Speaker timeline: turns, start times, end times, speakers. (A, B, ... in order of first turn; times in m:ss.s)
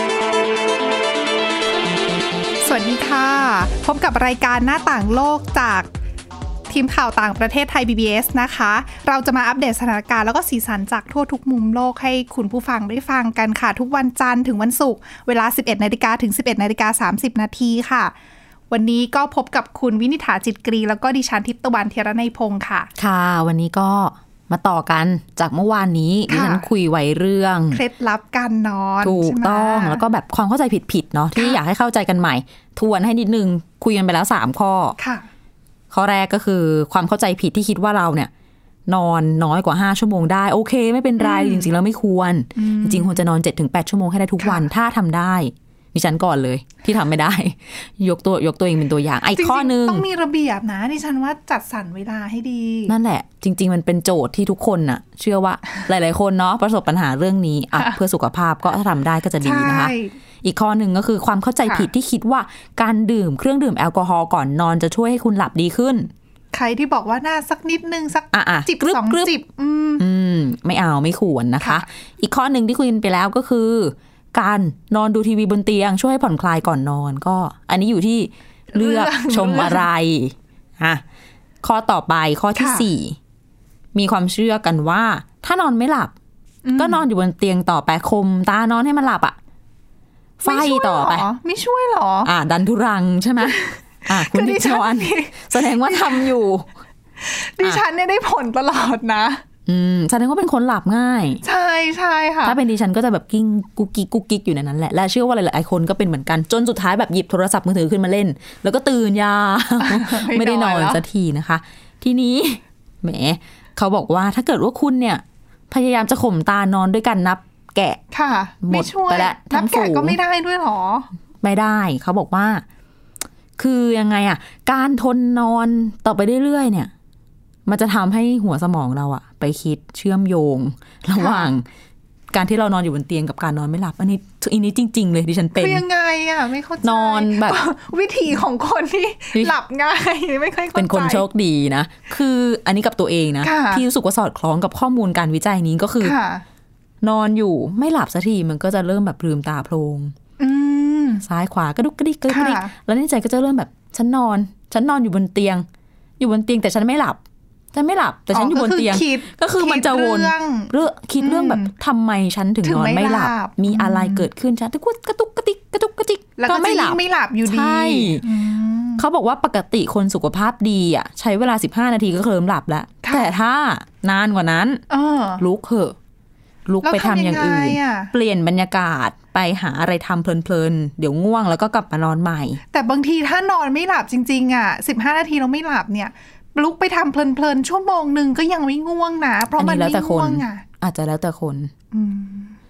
0:02.6-0:05.9 A
0:06.7-0:18.1 A
0:18.7-0:22.9 A
0:23.0-0:27.8 B
0:26.3-0:26.6 A
0:27.7-0:30.0 A
0:29.0-0:35.0 B
0:35.0-0:35.3 A
0:35.9-0:38.3 B
0:38.9-0:50.0 B
0:41.2-0:41.7 A
0:42.6-0:43.2 A
0:44.4-0:44.6 A
0:49.3-0:52.9 A
0:52.9-1:06.1 B
0:59.4-1:00.1 A
1:06.5-1:10.0 A
1:08.3-1:09.3 B
1:10.0-1:21.0 B
1:11.6-1:11.8 A
1:18.7-1:19.9 A
1:21.6-1:23.2 B
1:22.6-1:22.8 A
1:23.9-1:26.1 B
1:26.6-1:27.0 A
1:26.8-1:29.4 B
1:30.4-1:31.2 B
1:30.4-1:32.3 A
1:32.2-1:36.7 B
1:33.4-1:36.3 A
1:37.2-1:39.4 A
1:39.6-1:41.4 B
1:41.4-1:42.6 A
1:42.4-1:58.0 B
1:49.8-1:51.0 A
1:58.1-2:01.1 A
1:58.6-2:00.2 B
2:01.4-2:02.6 B
2:03.6-2:06.9 B
2:07.6-2:11.6 B
2:11.2-2:11.5 A
2:12.3-2:15.8 B
2:15.5-2:21.2 A
2:16.8-2:17.6 B
2:20.7-2:26.2 B
2:23.4-2:23.8 A
2:26.0-2:26.4 A
2:27.0-2:30.1 B
2:30.4-2:31.2 A
2:31.2-2:35.6 B
2:32.3-2:32.7 A
2:36.2-2:37.2 B
2:37.7-2:48.2 B
2:38.3-2:41.7 A
2:42.6-2:44.3 A
2:46.4-2:49.0 A
2:49.0-2:54.8 B
2:53.0-2:53.3 A
2:54.9-2:55.4 A
2:55.4-2:56.0 B
2:56.6-3:02.6 B
2:56.8-2:58.1 A
3:02.7-3:10.6 A
3:09.6-3:11.7 B
3:11.9-3:12.5 A